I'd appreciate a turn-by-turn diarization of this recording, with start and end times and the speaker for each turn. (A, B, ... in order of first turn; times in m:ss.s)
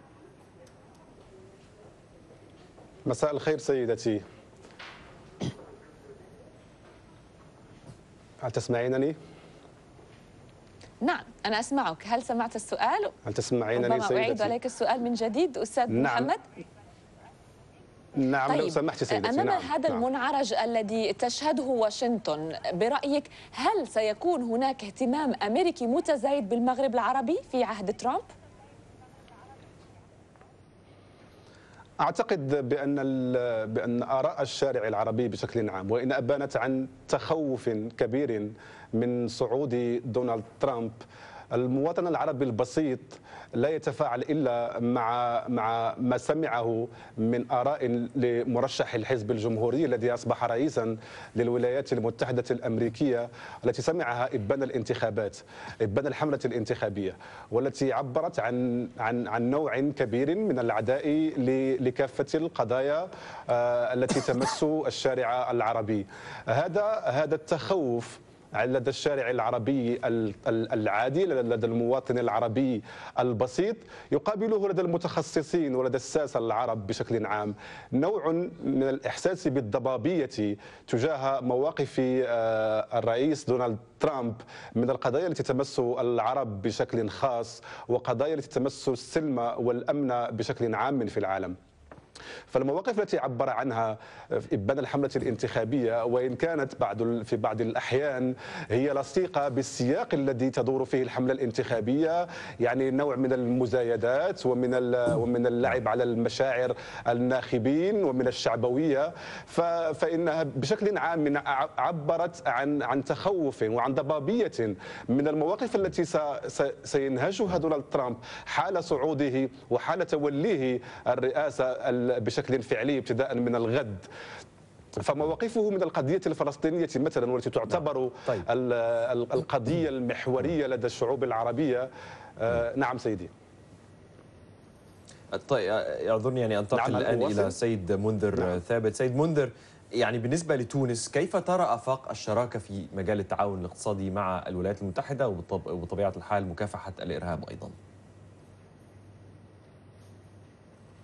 0:03.0-0:04.2 A
0:08.4-0:09.2 A
0:11.0-0:13.1 B
0:13.3-0:14.5 A
0:13.7-0:16.4 B
0:15.9-0:16.3 A
0:18.2-0:20.0 A
0:18.5-0:28.2 B
0:32.0-0:41.0 A
0:41.5-1:31.5 A
1:32.5-2:04.1 A
2:05.0-2:11.9 A
2:07.7-2:08.4 C
2:12.4-2:13.3 A
2:15.4-2:27.7 C
2:16.7-2:17.5 A